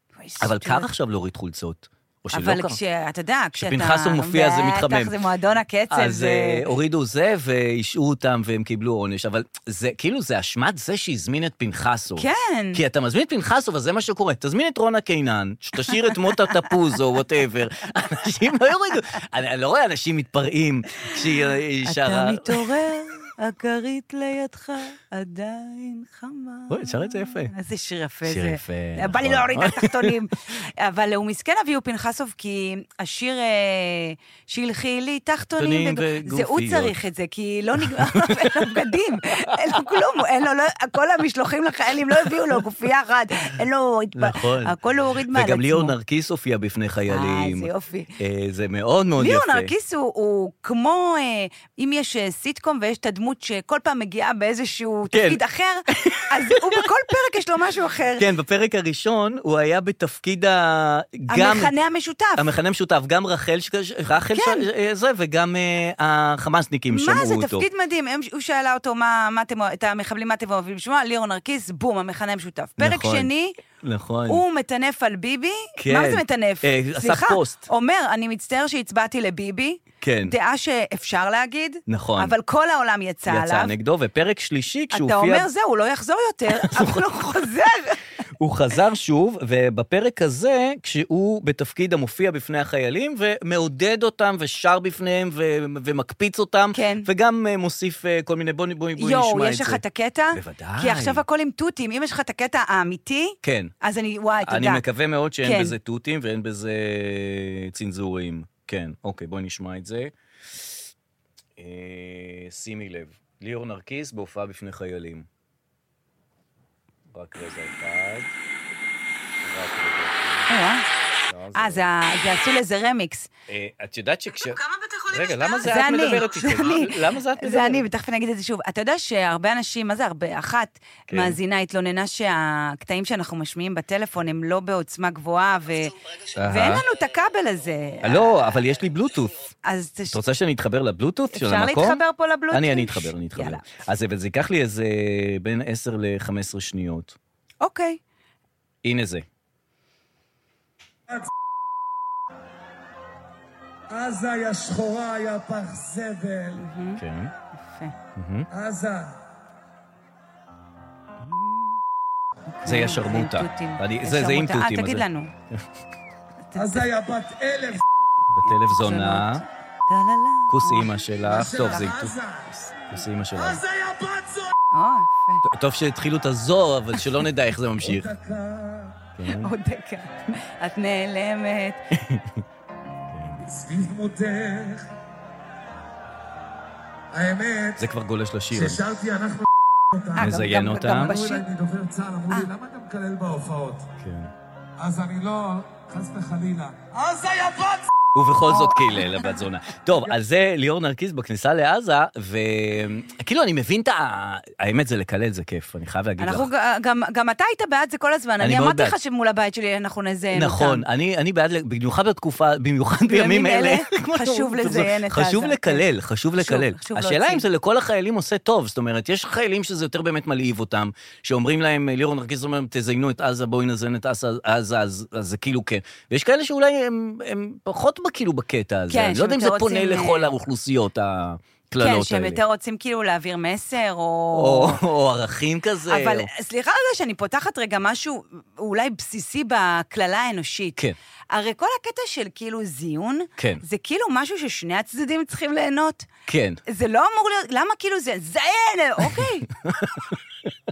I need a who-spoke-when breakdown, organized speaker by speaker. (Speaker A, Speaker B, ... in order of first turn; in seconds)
Speaker A: 0.2-0.9, 2.3-6.7, 12.2-12.8, 15.9-16.4, 21.9-46.0, 47.1-48.1, 49.2-58.3, 61.3-62.5, 64.3-64.7, 66.9-73.6, 74.3-83.7, 84.9-88.0, 96.7-97.1, 99.0-104.8, 105.4-105.8, 120.5-120.9, 121.5-123.3, 124.4-138.3, 139.6-140.2, 141.3-143.6, 147.6-148.0, 156.6-157.0, 157.6-157.9, 161.2-161.8, 162.6-165.3, 166.5-166.9, 168.4-171.9, 174.7-175.4, 179.3-181.8, 190.2-191.4, 198.5-199.3, 206.2-210.8, 213.1-215.8, 216.4-217.4, 228.9-230.3, 231.8-234.8, 235.9-240.8, 241.3-246.1, 246.7-249.5
Speaker B: 0.4-2.8, 3.5-5.2, 5.9-22.7, 26.7-27.5, 28.2-30.2, 35.6-36.9, 37.8-38.9, 39.4-39.9, 44.1-49.7, 55.1-56.8, 58.2-61.7, 62.4-67.7, 72.8-73.3, 73.8-74.4, 75.8-77.7, 80.0-80.3, 81.9-82.3, 83.3-85.5, 86.5-87.0, 88.4-99.8, 100.3-101.2, 103.4-103.7, 104.4-110.7, 111.6-115.3, 117.1-118.3, 119.4-120.5, 121.3-121.9, 123.5-127.9, 131.1-131.4, 136.4-136.8, 138.0-139.3, 140.1-147.2, 148.8-149.3, 157.0-157.3, 158.2-158.5, 162.6-165.6, 168.3-169.4, 170.5-172.1, 172.9-173.6, 175.4-178.1, 179.2-179.5, 181.9-182.4, 183.1-183.4, 187.8-188.8, 190.2-191.2, 194.0-194.3, 198.1-206.5, 208.4-208.9, 210.3-232.4, 234.3-236.3, 243.4-243.6, 246.3-246.6, 249.2-250.5
Speaker C: 153.9-156.7, 158.5-159.2, 166.6-167.8, 171.3-172.8, 173.4-174.5, 177.8-179.1, 183.4-184.9, 187.1-187.9, 188.5-193.9, 194.8-197.9